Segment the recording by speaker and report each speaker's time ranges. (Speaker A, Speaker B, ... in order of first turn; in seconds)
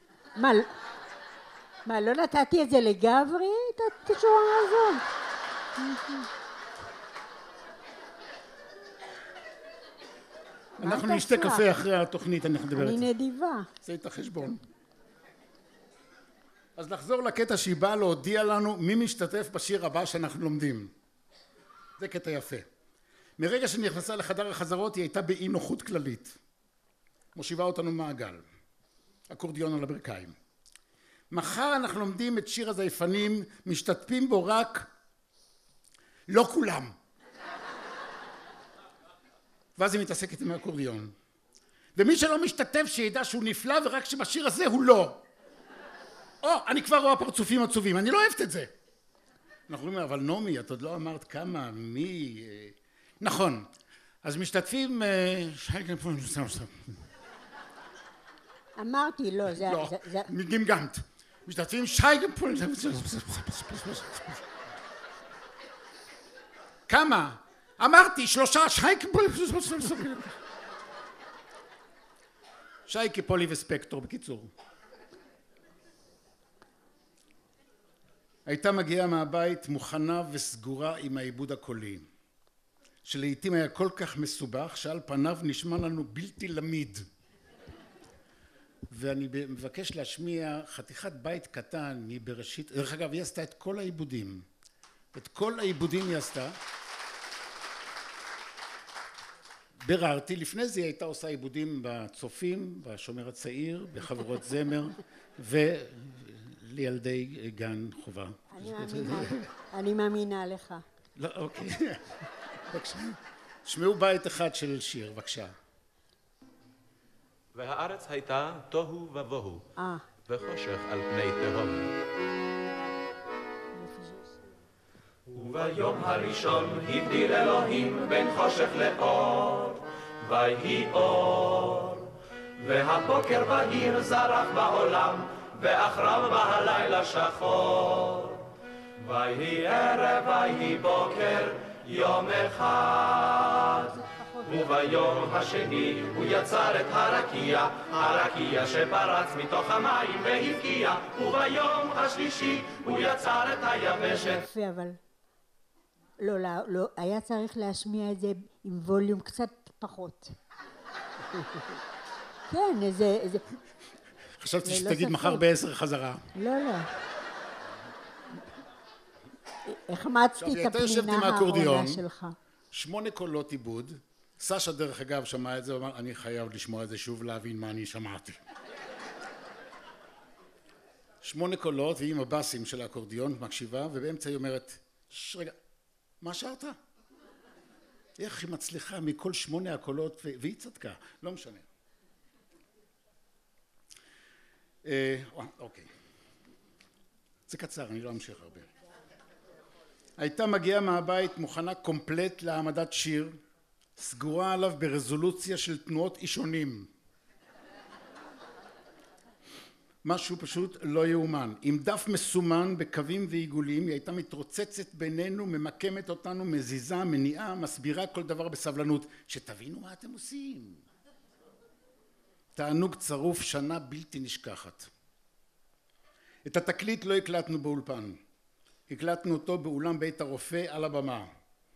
Speaker A: 0.4-0.7, 1.9-5.0, 5.8-6.2, 10.8-11.6, 12.7-13.7, 58.8-60.3, 108.5-110.8, 119.8-120.0, 123.7-124.6, 143.9-144.9, 154.1-155.0, 156.2-160.3, 162.5-163.4, 164.6-165.4, 166.3-166.9, 169.7-172.3
Speaker B: 10.8-13.1, 13.8-14.6, 16.8-20.9, 22.0-22.6, 23.4-26.4, 27.3-28.4, 29.3-30.3, 31.3-34.9, 36.3-36.9, 39.8-41.1, 42.0-45.2, 46.4-48.7, 49.7-53.7, 54.2-56.7, 59.5-64.4, 66.9-70.3, 72.9-74.5, 78.5-82.1, 83.0-87.0, 88.9-94.4, 95.1-96.6, 99.8-109.5, 111.2-112.0, 112.7-115.5, 164.4-166.2, 170.4-172.0, 172.7-178.4, 181.2-185.5, 186.2-186.8, 188.2-191.6, 194.8-195.9, 197.5-198.7, 200.2-203.4, 204.0-206.9, 210.0-220.8, 222.5-224.9, 226.4-228.2, 228.9-231.3
Speaker C: 125.3-132.0, 132.6-138.3, 139.0-143.8, 144.5-154.4